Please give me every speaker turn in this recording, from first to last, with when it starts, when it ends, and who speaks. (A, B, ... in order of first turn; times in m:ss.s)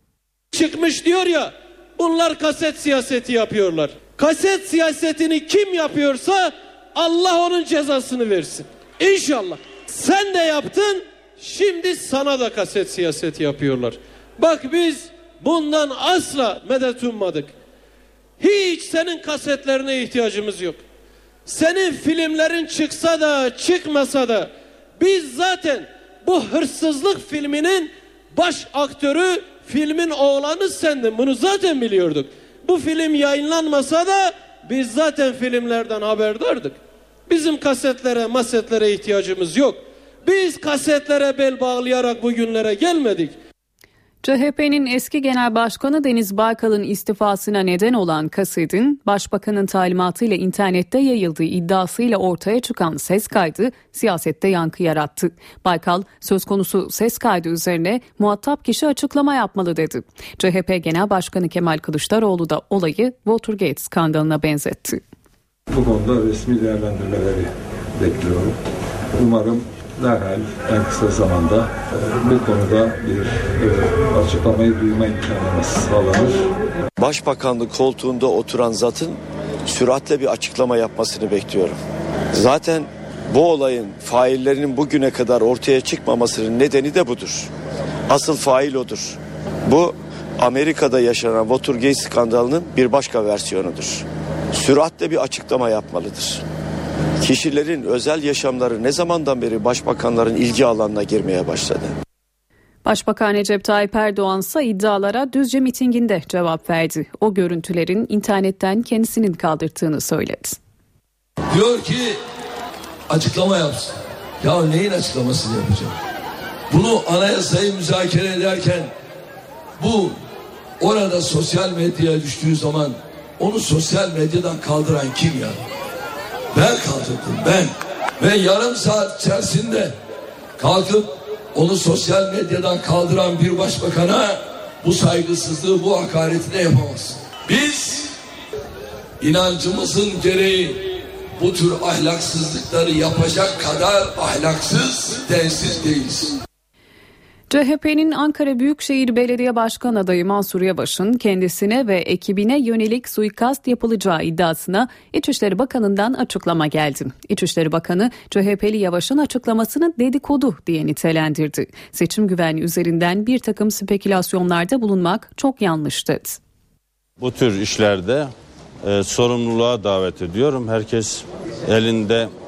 0:00.5-0:17.5 A
0:18.4-0:20.8 A
0:21.5-0:43.4 A
0:44.2-1:05.0 B
1:05.7-1:08.6 C
1:09.2-1:16.4 C
1:17.0-1:21.8 D
1:22.3-1:27.5 D
1:28.1-1:36.4 D
1:37.2-1:41.9 D
1:42.8-1:50.6 B
1:51.5-1:52.2 E
1:53.1-1:56.0 E
1:56.7-1:58.9 E
1:59.8-2:00.2 E
2:00.8-2:05.6 E
2:06.5-2:10.0 E
2:10.6-2:18.1 E
2:19.2-2:20.8 E
2:21.4-2:26.4 E
2:27.5-2:46.4 B
2:47.2-2:48.3 F
2:48.8-2:52.3 F